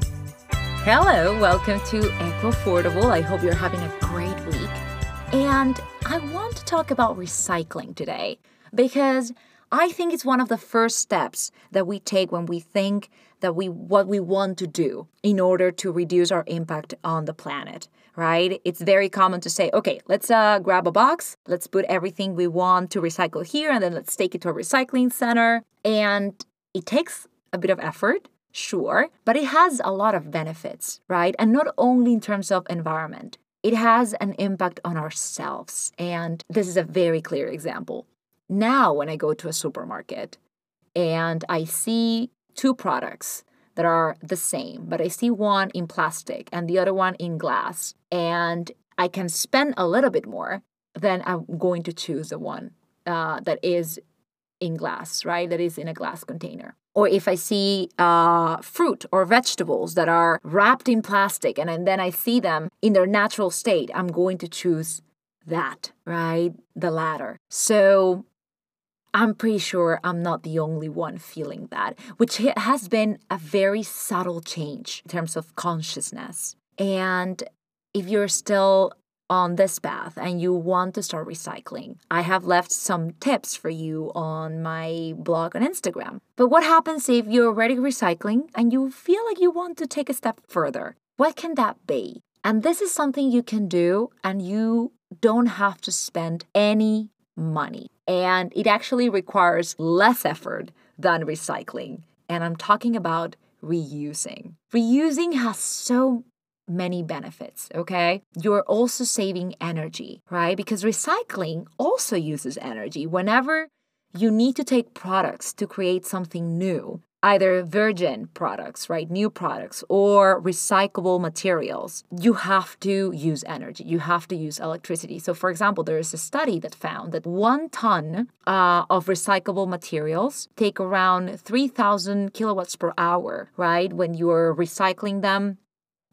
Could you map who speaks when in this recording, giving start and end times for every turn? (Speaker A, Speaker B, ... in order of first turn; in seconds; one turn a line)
Speaker A: 0.8-40.4
Speaker A: 41.0-54.0
Speaker A: 54.6-68.2
Speaker A: 69.1-135.6